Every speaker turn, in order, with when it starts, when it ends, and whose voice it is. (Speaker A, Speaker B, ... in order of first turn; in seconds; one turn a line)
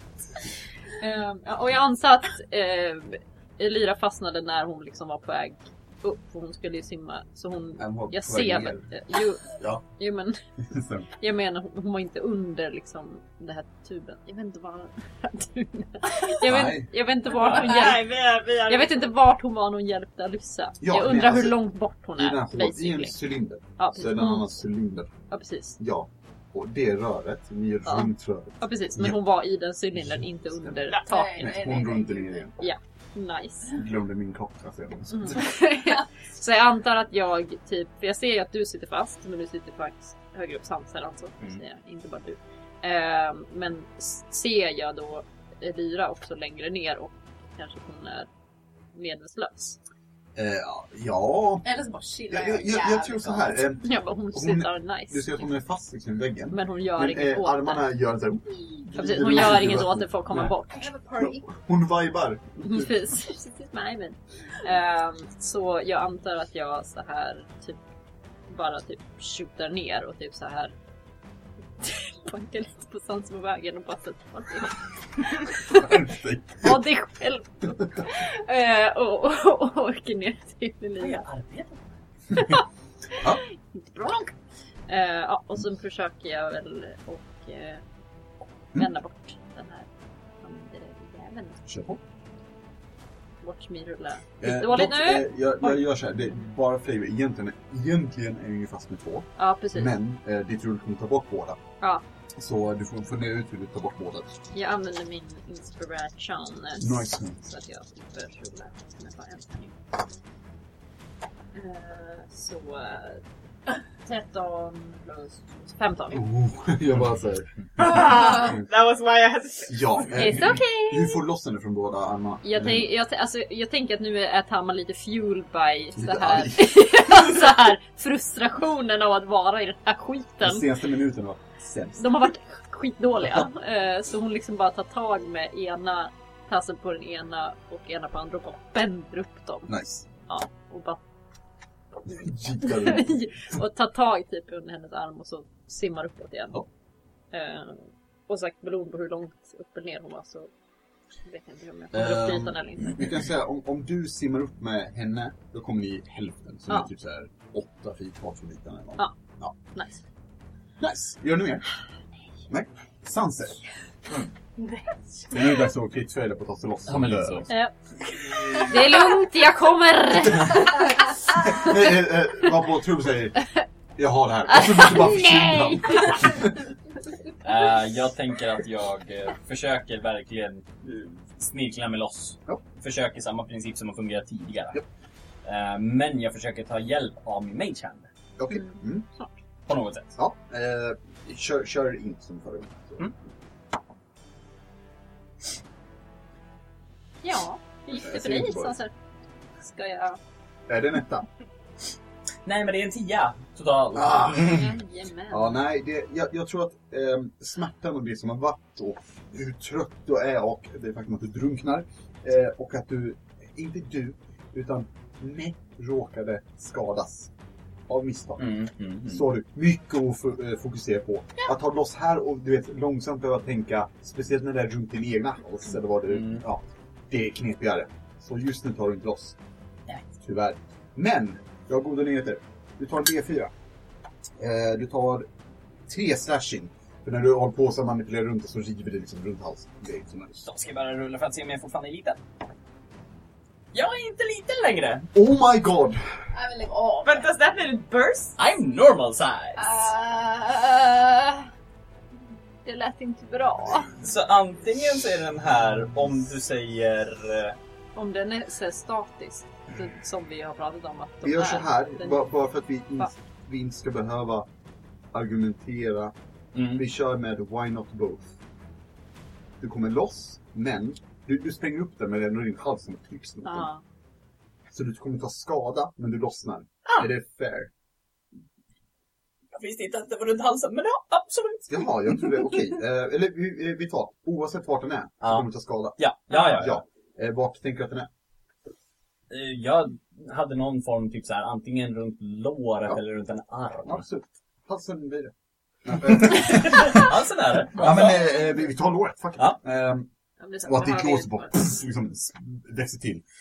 Speaker A: 1.0-10.4
Speaker B: 7.8-8.9
Speaker B: 9.5-9.8
Speaker B: 10.7-11.1
Speaker A: 11.2-18.1
Speaker B: 16.4-16.9
Speaker C: 17.4-19.1
Speaker A: 18.6-23.2
Speaker B: 20.8-21.6
Speaker B: 22.1-25.1
Speaker A: 23.8-24.5
Speaker A: 25.3-25.8
Speaker B: 25.8-29.2
Speaker A: 27.8-31.6
Speaker B: 29.9-32.5
Speaker D: 31.0-32.5
Speaker A: 32.6-33.8
Speaker B: 33.7-35.5
Speaker A: 35.1-48.3
Speaker A: 48.9-49.8
Speaker B: 50.4-51.6
Speaker D: 51.6-53.6
Speaker B: 52.3-60.5
Speaker A: 53.8-55.5
Speaker A: 56.5-57.9
Speaker A: 58.9-60.9
Speaker D: 60.7-61.5
Speaker B: 61.2-62.9
Speaker A: 62.6-67.8
Speaker A: 68.5-70.7
Speaker A: 71.8-76.1
Speaker B: 75.7-76.8
Speaker A: 76.6-81.2
Speaker E: 81.0-81.8
Speaker A: 82.3-84.3
Speaker A: 84.9-87.8
Speaker A: 88.7-89.9
Speaker A: 90.4-91.6
Speaker B: 91.7-92.0
Speaker A: 93.4-95.8
Speaker B: 94.4-101.6
Speaker A: 99.4-99.9
Speaker B: 102.4-104.3
Speaker A: 104.5-109.7
Speaker B: 106.8-107.4
Speaker A: 111.5-113.2
Speaker A: 114.0-116.2
Speaker B: 116.1-118.5
Speaker C: 117.8-120.1
Speaker B: 119.7-122.8
Speaker A: 120.1-121.2
Speaker A: 122.4-130.7
Speaker B: 126.0-127.3
Speaker B: 130.4-132.3
Speaker A: 132.0-139.7
Speaker B: 139.7-140.1
Speaker A: 140.3-141.0
Speaker B: 142.1-143.2
Speaker A: 142.6-146.6
Speaker A: 147.3-150.5
Speaker A: 151.2-153.1
Speaker B: 151.9-159.6
Speaker A: 159.7-160.0
Speaker B: 160.8-161.6
Speaker B: 162.5-163.6
Speaker C: 164.7-165.3
Speaker B: 165.3-167.5
Speaker E: 166.9-167.5
Speaker E: 168.2-168.8
Speaker A: 168.5-171.1
Speaker B: 171.3-173.4
Speaker B: 173.9-176.6
Speaker A: 174.5-176.3
Speaker E: 177.4-184.8
Speaker E: 185.4-188.1
Speaker B: 188.4-189.1
Speaker A: 188.5-189.3
Speaker E: 189.7-190.2
Speaker B: 190.2-193.1
Speaker A: 197.2-198.9
Speaker B: 197.9-198.8
Speaker A: 199.6-200.2
Speaker B: 200.7-201.3
Speaker E: 202.4-204.7
Speaker B: 203.9-204.7
Speaker A: 204.3-205.6
Speaker B: 205.3-217.3
Speaker B: 217.9-218.5
Speaker E: 218.4-219.2
Speaker B: 219.1-229.3
Speaker E: 226.1-226.4
Speaker B: 230.2-233.5
Speaker B: 234.4-235.3
Speaker B: 235.9-240.4
Speaker E: 240.3-242.2
Speaker E: 243.7-245.1
Speaker B: 245.1-246.0
Speaker D: 246.3-247.3
Speaker C: 247.0-248.3
Speaker E: 248.4-249.7
Speaker D: 249.6-251.4
Speaker A: 252.6-253.9
Speaker E: 254.0-257.6
Speaker A: 257.9-262.2
Speaker B: 261.2-264.5
Speaker B: 265.1-266.1
Speaker E: 266.6-266.8
Speaker B: 266.7-268.3
Speaker B: 269.6-273.7
Speaker A: 273.4-273.8
Speaker B: 274.7-277.7
Speaker E: 279.5-282.5
Speaker B: 281.7-288.1
Speaker E: 285.2-286.8
Speaker E: 289.3-294.0
Speaker B: 293.8-295.3
Speaker B: 295.8-297.1
Speaker E: 296.0-298.2
Speaker B: 297.7-300.1
Speaker A: 300.4-301.6
Speaker B: 300.6-303.2